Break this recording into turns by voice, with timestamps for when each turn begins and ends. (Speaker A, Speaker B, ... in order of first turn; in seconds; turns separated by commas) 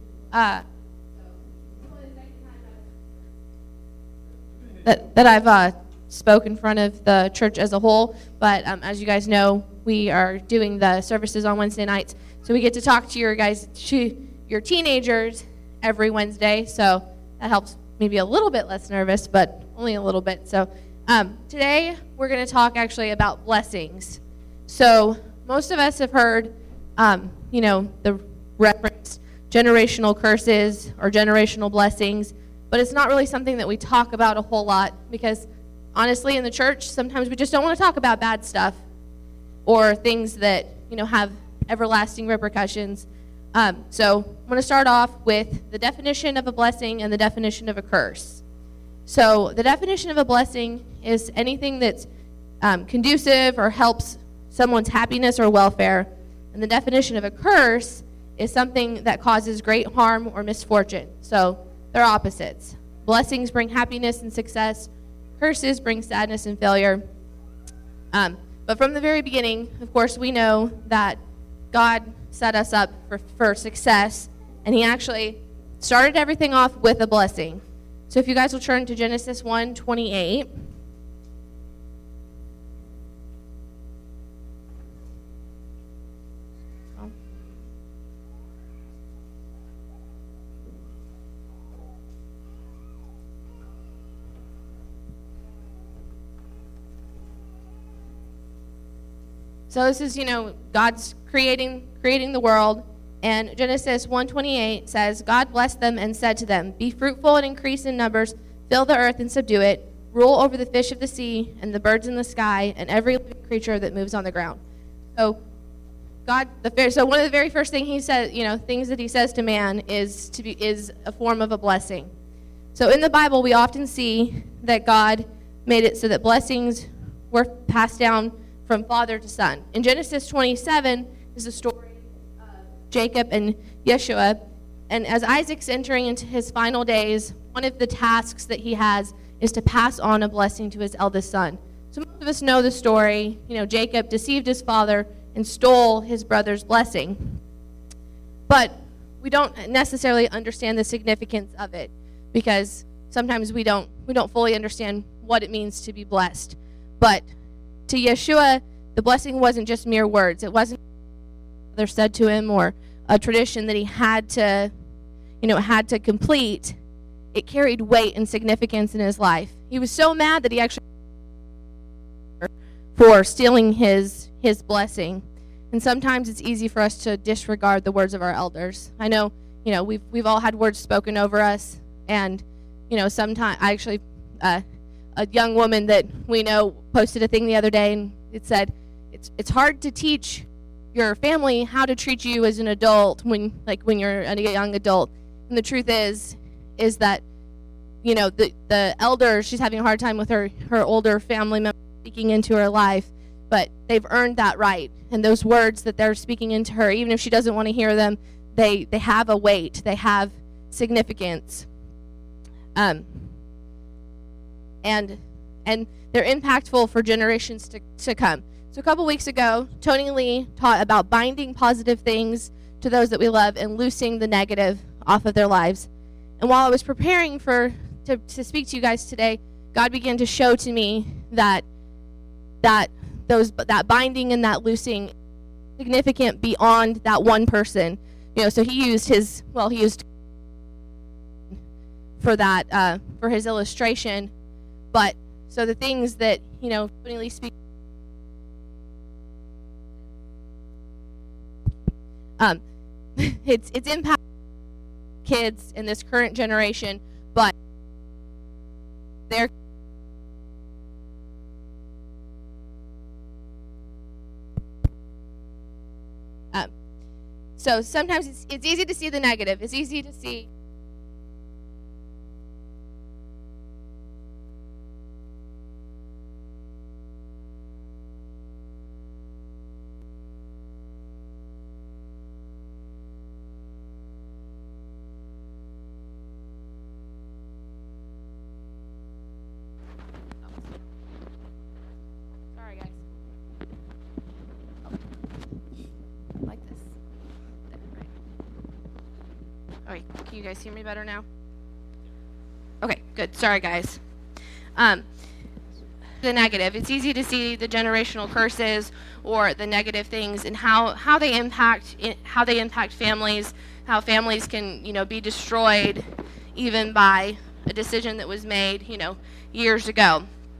Speaker A: 0.3-0.6, Speaker A: 2.0-2.2, Speaker A: 4.8-38.8, Speaker A: 39.6-48.4, Speaker A: 49.1-52.1, Speaker A: 52.6-67.0, Speaker A: 68.1-71.2, Speaker A: 71.7-80.5, Speaker A: 99.7-114.6, Speaker A: 116.3-122.1, Speaker A: 122.8-132.0, Speaker A: 132.8-134.4, Speaker A: 134.9-147.4, Speaker A: 148.5-157.3, Speaker A: 157.9-160.8, Speaker A: 161.7-164.7, Speaker A: 165.4-166.8, Speaker A: 167.3-170.8, Speaker A: 172.4-184.6, Speaker A: 185.2-197.2, Speaker A: 198.0-211.7, Speaker A: 212.8-213.3, Speaker A: 214.8-225.9, Speaker A: 226.4-231.7, Speaker A: 232.6-235.1, Speaker A: 235.8-240.1, Speaker A: 242.2-244.3, Speaker A: 244.9-247.5, Speaker A: 253.2-254.2, Speaker A: 255.2-257.5, Speaker A: 267.6-270.5, Speaker A: 292.6-293.0, Speaker A: 296.4-297.0, Speaker A: 297.7-298.1, Speaker A: 299.9-301.2, Speaker A: 302.8-304.0, Speaker A: 304.8-305.1, Speaker A: 306.2-320.2